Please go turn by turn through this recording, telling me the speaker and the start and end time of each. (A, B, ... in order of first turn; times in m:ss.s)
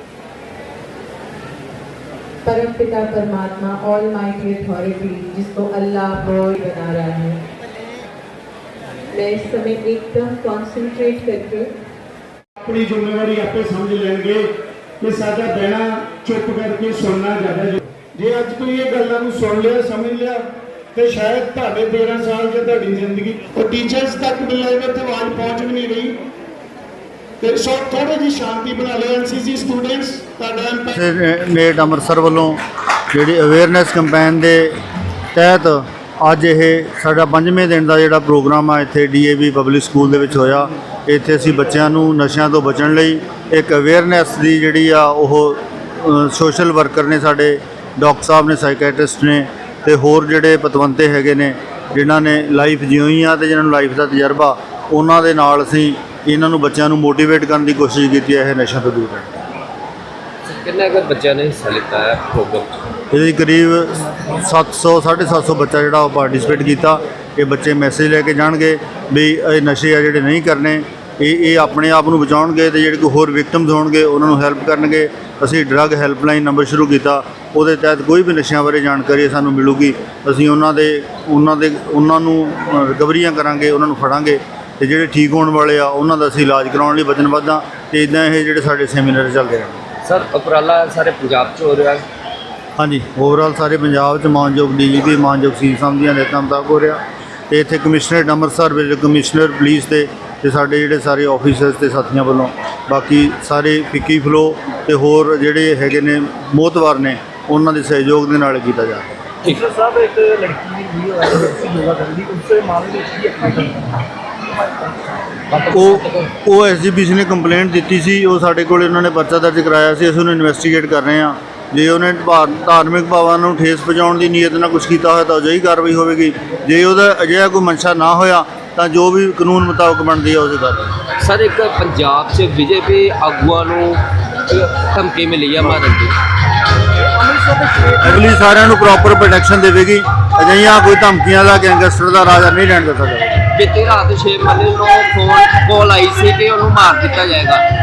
0:02.4-0:07.4 A
0:09.1-0:11.7 A
0:12.6-0:14.5 B
0:15.0-0:20.4 B
0:21.0-0:26.2 B
0:27.4-0:31.0 B
0:30.9-0:32.6 C
0:33.1-0:34.7 C
0:35.3-0:59.3 C
1:00.4-1:02.8 D
1:03.1-1:29.8 C
1:30.0-1:32.0 D
1:32.8-1:49.2 C
1:49.4-1:55.8 E
1:55.6-1:56.3 D
1:55.7-2:10.9 C
2:11.2-2:16.2 D
2:17.0-2:18.3 E
2:18.0-2:23.4 C
2:23.5-2:27.6 D